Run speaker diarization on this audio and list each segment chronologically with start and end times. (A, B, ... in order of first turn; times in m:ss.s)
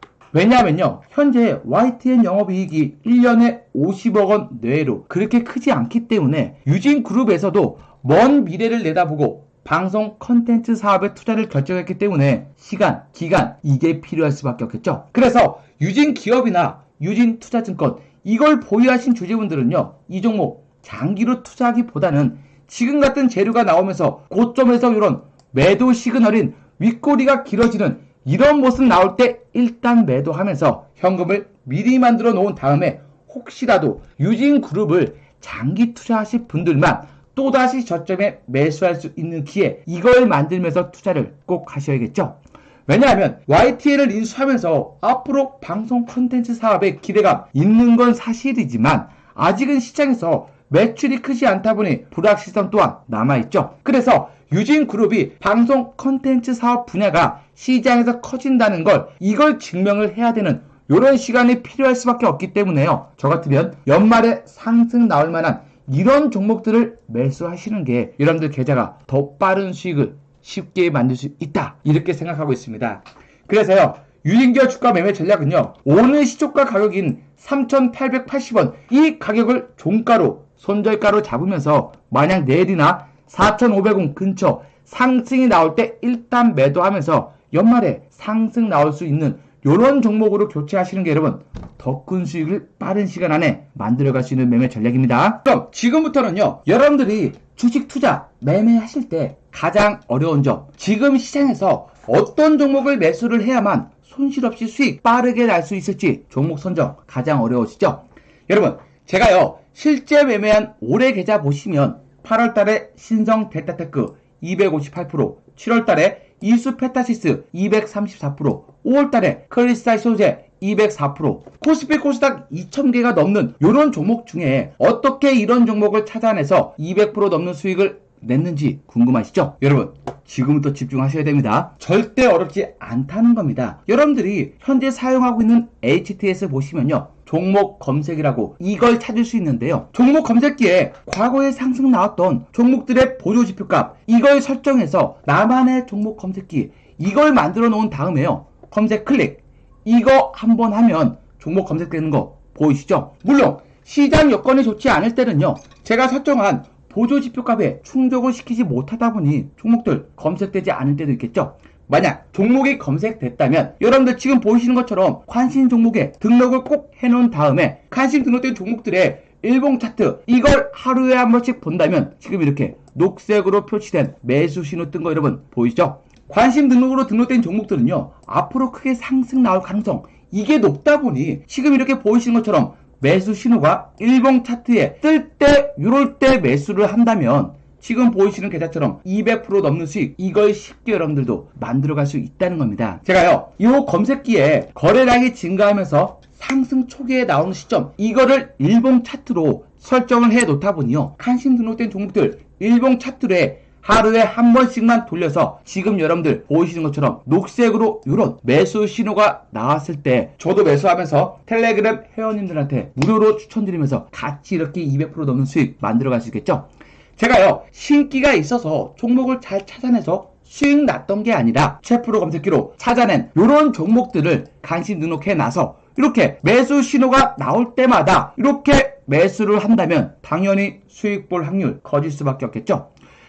0:00.3-3:52.9 A